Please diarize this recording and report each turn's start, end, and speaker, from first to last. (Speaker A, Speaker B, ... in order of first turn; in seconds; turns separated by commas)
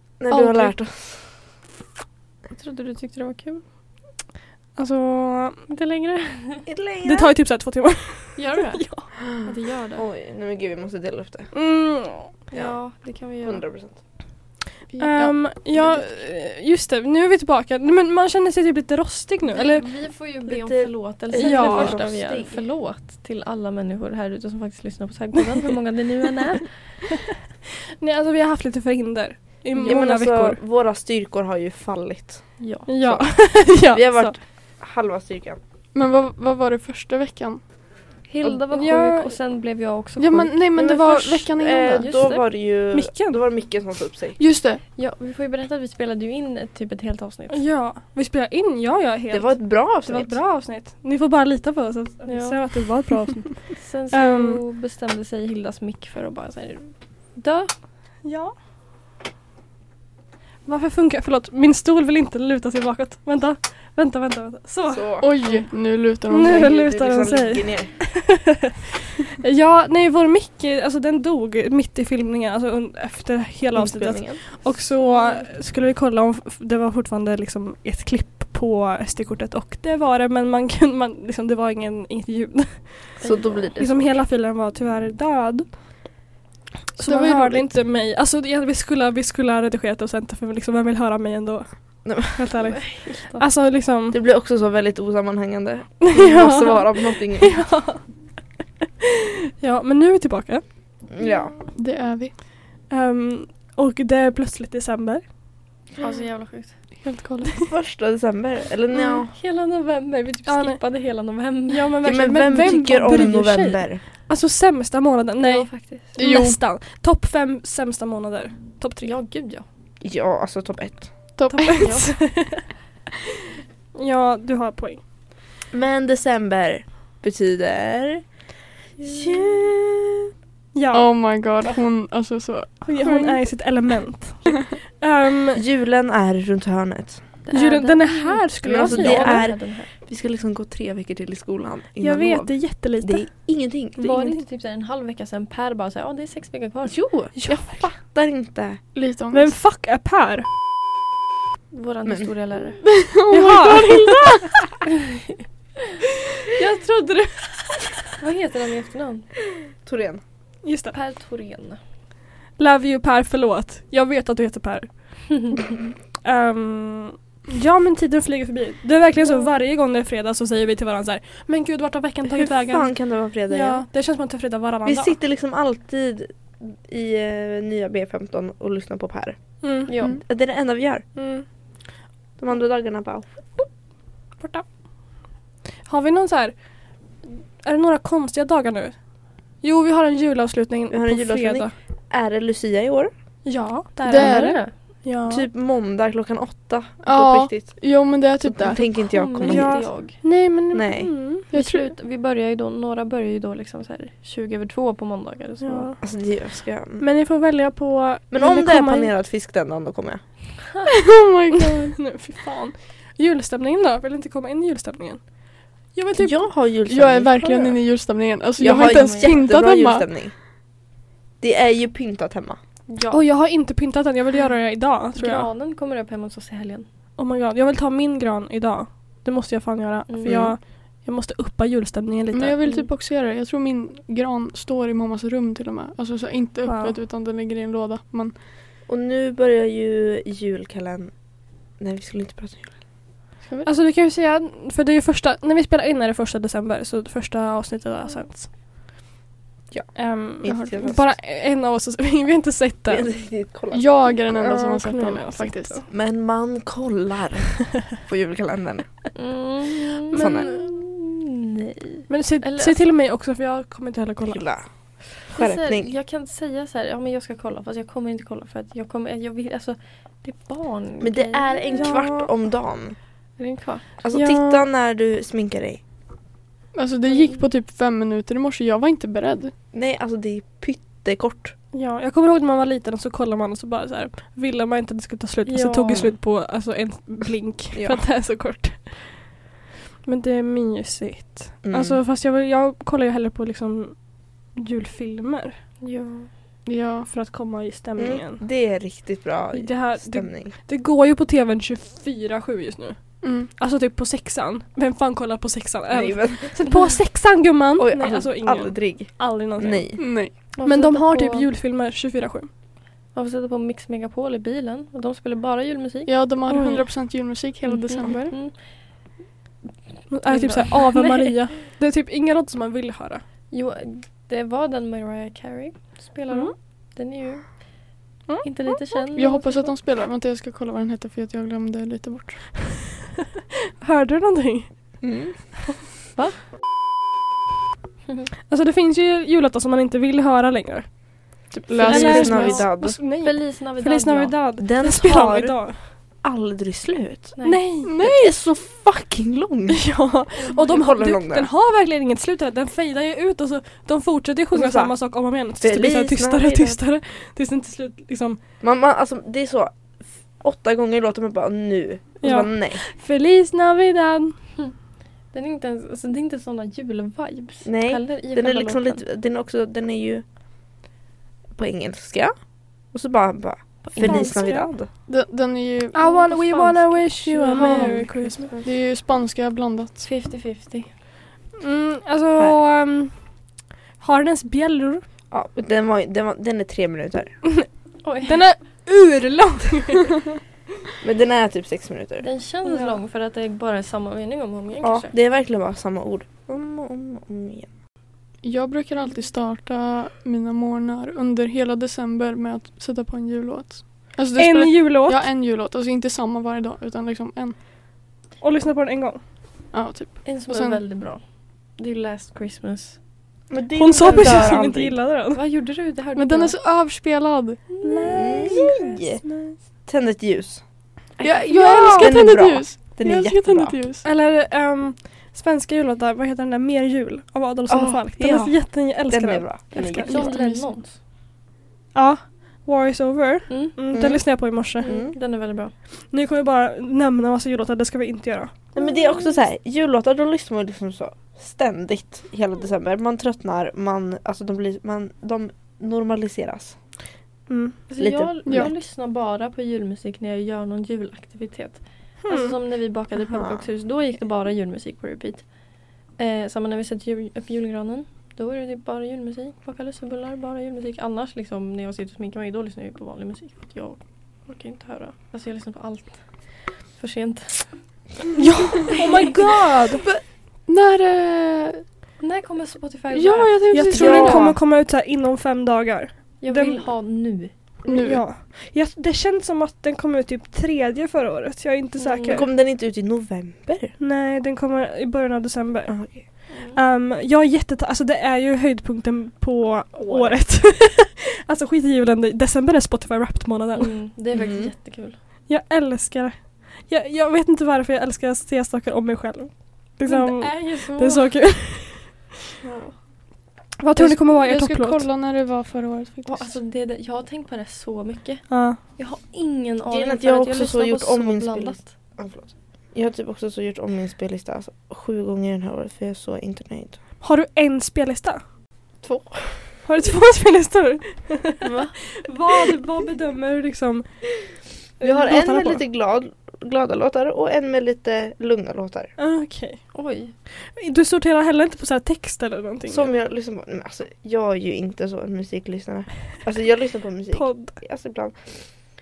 Speaker A: 0.2-1.3, Speaker B: 0.3-0.7, Speaker B: 2.5-3.6, Speaker C: 4.8-5.6, Speaker B: 5.7-6.7, Speaker A: 6.7-7.3, Speaker C: 7.0-9.1, Speaker B: 8.4-10.0, Speaker A: 9.9-11.5, Speaker C: 11.5-12.3, Speaker B: 12.5-13.6, Speaker A: 12.5-12.8, Speaker A: 13.4-14.0, Speaker D: 14.9-15.6, Speaker C: 15.0-19.9, Speaker B: 19.4-26.7, Speaker A: 20.4-22.6, Speaker C: 21.3-22.0, Speaker C: 28.0-30.6, Speaker B: 29.7-30.0, Speaker A: 29.8-32.5, Speaker B: 32.6-32.9, Speaker C: 32.9-34.4, Speaker A: 33.0-35.6, Speaker D: 35.9-37.6, Speaker B: 38.3-40.5, Speaker C: 38.7-39.3, Speaker D: 40.2-42.1, Speaker A: 40.8-44.4, Speaker B: 41.9-42.5, Speaker C: 42.9-43.4, Speaker D: 44.4-44.8, Speaker B: 44.9-47.6, Speaker C: 47.5-54.6, Speaker A: 49.3-50.4, Speaker B: 52.2-52.6, Speaker B: 53.7-57.7, Speaker C: 58.2-58.5, Speaker C: 60.6-65.1, Speaker A: 64.9-65.3, Speaker D: 65.2-66.7, Speaker C: 66.3-83.1, Speaker A: 66.4-68.0, Speaker A: 73.7-74.4, Speaker B: 75.0-75.5, Speaker B: 83.2-83.7, Speaker A: 83.2-84.1, Speaker C: 83.8-85.8, Speaker C: 86.9-94.2, Speaker D: 87.0-87.7, Speaker A: 92.0-92.4, Speaker B: 92.7-93.4, Speaker A: 94.1-97.6, Speaker C: 96.0-98.0, Speaker C: 99.6-100.6, Speaker A: 101.1-101.5, Speaker B: 101.2-101.6, Speaker D: 101.8-102.3, Speaker C: 102.9-105.2, Speaker B: 106.0-106.8, Speaker D: 107.0-107.6, Speaker A: 107.6-109.3, Speaker B: 108.9-113.8, Speaker C: 110.5-110.8, Speaker C: 111.7-119.1, Speaker A: 112.0-114.0, Speaker B: 115.4-116.2, Speaker D: 116.2-116.6, Speaker B: 119.0-119.6, Speaker A: 120.0-121.1, Speaker D: 121.3-122.0, Speaker B: 121.5-122.1, Speaker C: 121.6-122.6, Speaker C: 124.0-125.0, Speaker A: 125.7-128.2, Speaker A: 129.0-130.3, Speaker B: 129.0-129.4, Speaker C: 130.7-131.1, Speaker D: 130.9-133.4, Speaker C: 132.8-135.6, Speaker A: 135.5-137.2, Speaker B: 137.4-139.9, Speaker C: 137.5-139.4, Speaker A: 138.6-144.0, Speaker C: 142.0-143.2, Speaker B: 144.0-147.0, Speaker C: 144.0-144.4, Speaker A: 146.9-148.8, Speaker C: 147.3-147.8, Speaker D: 148.9-149.5, Speaker C: 149.3-150.4, Speaker B: 151.7-152.8, Speaker D: 152.8-154.7, Speaker C: 153.3-154.5, Speaker C: 156.4-157.9, Speaker B: 158.2-159.3, Speaker A: 159.8-160.2, Speaker C: 160.6-160.9, Speaker B: 160.9-161.8, Speaker C: 162.6-165.5, Speaker C: 166.2-175.2, Speaker A: 172.4-173.9, Speaker A: 174.8-179.4, Speaker C: 179.6-179.9, Speaker B: 179.9-180.1, Speaker A: 179.9-181.0, Speaker C: 181.2-181.4, Speaker A: 182.4-183.3, Speaker C: 184.4-184.6, Speaker C: 185.9-186.5, Speaker C: 187.6-188.9, Speaker C: 189.6-191.7, Speaker A: 190.9-193.1, Speaker C: 193.4-195.5, Speaker D: 194.1-194.6, Speaker B: 194.1-194.7, Speaker A: 195.3-199.9, Speaker D: 197.0-198.8, Speaker B: 199.1-200.2, Speaker C: 199.4-201.5, Speaker A: 200.7-201.1, Speaker D: 201.5-201.9, Speaker B: 201.5-205.9, Speaker C: 205.6-206.0, Speaker A: 206.0-207.0, Speaker C: 207.0-209.1, Speaker A: 208.3-210.2, Speaker D: 210.9-211.9, Speaker C: 211.5-215.2, Speaker C: 215.9-216.4, Speaker A: 216.2-217.3, Speaker D: 216.8-220.1, Speaker C: 217.4-217.8, Speaker B: 218.6-219.5, Speaker A: 218.6-220.3, Speaker A: 221.4-222.6, Speaker B: 222.9-223.2, Speaker C: 223.1-225.5, Speaker B: 225.1-226.9, Speaker C: 227.2-232.6, Speaker B: 230.1-230.4, Speaker A: 230.2-230.6, Speaker D: 232.3-238.3, Speaker C: 236.6-237.0, Speaker A: 238.9-241.1, Speaker A: 241.8-242.7, Speaker D: 243.4-243.7, Speaker C: 243.6-248.5, Speaker A: 249.7-251.1, Speaker C: 249.9-253.1, Speaker D: 250.4-250.8, Speaker A: 252.9-254.1, Speaker D: 253.7-255.8, Speaker C: 254.3-255.8, Speaker A: 255.9-258.9, Speaker B: 259.1-262.8, Speaker C: 260.1-260.7, Speaker A: 260.1-260.6, Speaker C: 262.1-264.4, Speaker A: 264.2-265.9, Speaker B: 265.4-272.0, Speaker A: 271.0-272.9, Speaker C: 271.7-272.3, Speaker B: 273.4-273.9, Speaker A: 274.0-275.8, Speaker C: 274.1-274.6, Speaker D: 276.7-279.5, Speaker B: 277.1-277.4, Speaker A: 279.7-281.5, Speaker C: 281.7-289.2, Speaker B: 285.4-286.1, Speaker A: 287.7-288.0, Speaker C: 290.0-293.9, Speaker A: 291.6-292.0, Speaker C: 294.6-295.5, Speaker B: 295.8-296.3, Speaker D: 296.6-297.1, Speaker C: 297.1-298.4, Speaker A: 298.0-300.5, Speaker C: 299.5-309.9, Speaker D: 303.2-303.5, Speaker A: 305.9-306.6, Speaker A: 307.8-310.0, Speaker D: 310.0-310.3, Speaker C: 310.5-312.5, Speaker B: 310.5-311.5, Speaker B: 313.1-316.1, Speaker D: 316.1-318.2, Speaker C: 316.5-316.9, Speaker B: 317.6-318.6, Speaker C: 320.1-323.2, Speaker B: 320.2-321.4, Speaker B: 323.5-327.6, Speaker C: 328.3-328.8, Speaker B: 328.4-329.8, Speaker D: 329.1-332.6, Speaker C: 333.8-334.7, Speaker A: 335.0-335.3, Speaker C: 338.5-340.9, Speaker A: 341.5-343.0, Speaker D: 341.7-342.7, Speaker C: 341.8-345.8, Speaker B: 343.0-344.3, Speaker A: 344.6-345.7, Speaker A: 346.2-347.3, Speaker B: 347.4-347.7, Speaker C: 347.4-347.9, Speaker D: 347.8-348.3, Speaker A: 348.0-349.9, Speaker C: 349.7-358.4, Speaker A: 350.5-351.5, Speaker A: 354.5-354.9, Speaker A: 355.6-356.8, Speaker A: 358.6-359.8, Speaker A: 360.4-362.8, Speaker C: 362.2-364.3, Speaker B: 365.3-369.0, Speaker A: 367.6-370.2, Speaker A: 371.6-372.3, Speaker A: 372.9-374.9, Speaker B: 373.8-374.5, Speaker C: 374.0-374.7, Speaker D: 375.1-378.1, Speaker C: 375.9-378.5, Speaker B: 377.5-377.9, Speaker A: 377.5-378.7, Speaker D: 378.6-380.0, Speaker B: 380.0-380.9, Speaker C: 381.6-383.1, Speaker C: 384.0-385.0, Speaker A: 385.3-387.4, Speaker B: 388.0-388.4, Speaker C: 388.2-390.2, Speaker A: 391.0-392.2, Speaker B: 392.2-395.1, Speaker C: 392.6-393.0, Speaker A: 394.8-397.7, Speaker D: 398.4-407.6, Speaker C: 404.3-405.2, Speaker C: 408.4-409.2, Speaker D: 409.7-410.8, Speaker B: 410.2-411.2, Speaker B: 411.8-413.0, Speaker A: 413.5-415.0, Speaker C: 413.7-415.4, Speaker B: 414.0-414.6, Speaker B: 415.3-416.6, Speaker D: 416.1-417.6, Speaker B: 417.7-418.8, Speaker C: 417.8-419.6, Speaker A: 418.1-419.2, Speaker A: 419.9-420.6, Speaker B: 421.2-422.1, Speaker D: 421.2-424.0, Speaker C: 421.5-422.1, Speaker A: 421.9-423.8, Speaker C: 424.0-430.4, Speaker A: 427.7-430.6, Speaker B: 429.8-431.0, Speaker C: 431.9-434.9, Speaker B: 433.5-433.8, Speaker A: 433.9-435.1, Speaker B: 434.8-435.7, Speaker C: 436.1-438.5, Speaker A: 438.7-446.8, Speaker B: 438.8-439.4, Speaker C: 447.5-447.8, Speaker B: 447.9-455.4, Speaker A: 448.0-448.7, Speaker C: 452.2-452.5, Speaker A: 453.3-453.6, Speaker B: 456.2-466.2, Speaker B: 466.9-467.8, Speaker C: 468.4-470.0, Speaker B: 468.9-469.5, Speaker D: 470.0-471.8, Speaker B: 472.2-474.5, Speaker D: 473.1-474.5, Speaker C: 473.3-476.9, Speaker A: 473.9-474.6, Speaker B: 476.4-477.5, Speaker D: 477.8-478.2, Speaker C: 477.9-482.4, Speaker B: 482.0-482.5, Speaker A: 482.3-483.9, Speaker C: 484.0-493.9, Speaker A: 485.9-486.2, Speaker B: 486.5-486.8, Speaker A: 489.9-490.4, Speaker B: 493.8-495.2, Speaker A: 494.3-494.7, Speaker C: 495.5-502.3, Speaker B: 500.0-501.3, Speaker B: 502.6-502.9, Speaker C: 503.8-505.1, Speaker D: 503.9-506.6, Speaker B: 506.2-511.8, Speaker C: 508.5-508.8, Speaker A: 509.9-517.0, Speaker C: 517.2-518.4, Speaker A: 519.0-519.6, Speaker C: 519.9-524.1, Speaker B: 521.6-522.0, Speaker C: 525.0-525.8, Speaker A: 525.0-529.1, Speaker C: 529.2-529.8, Speaker B: 529.9-530.3, Speaker C: 530.5-533.1, Speaker A: 532.9-538.6, Speaker C: 537.3-537.8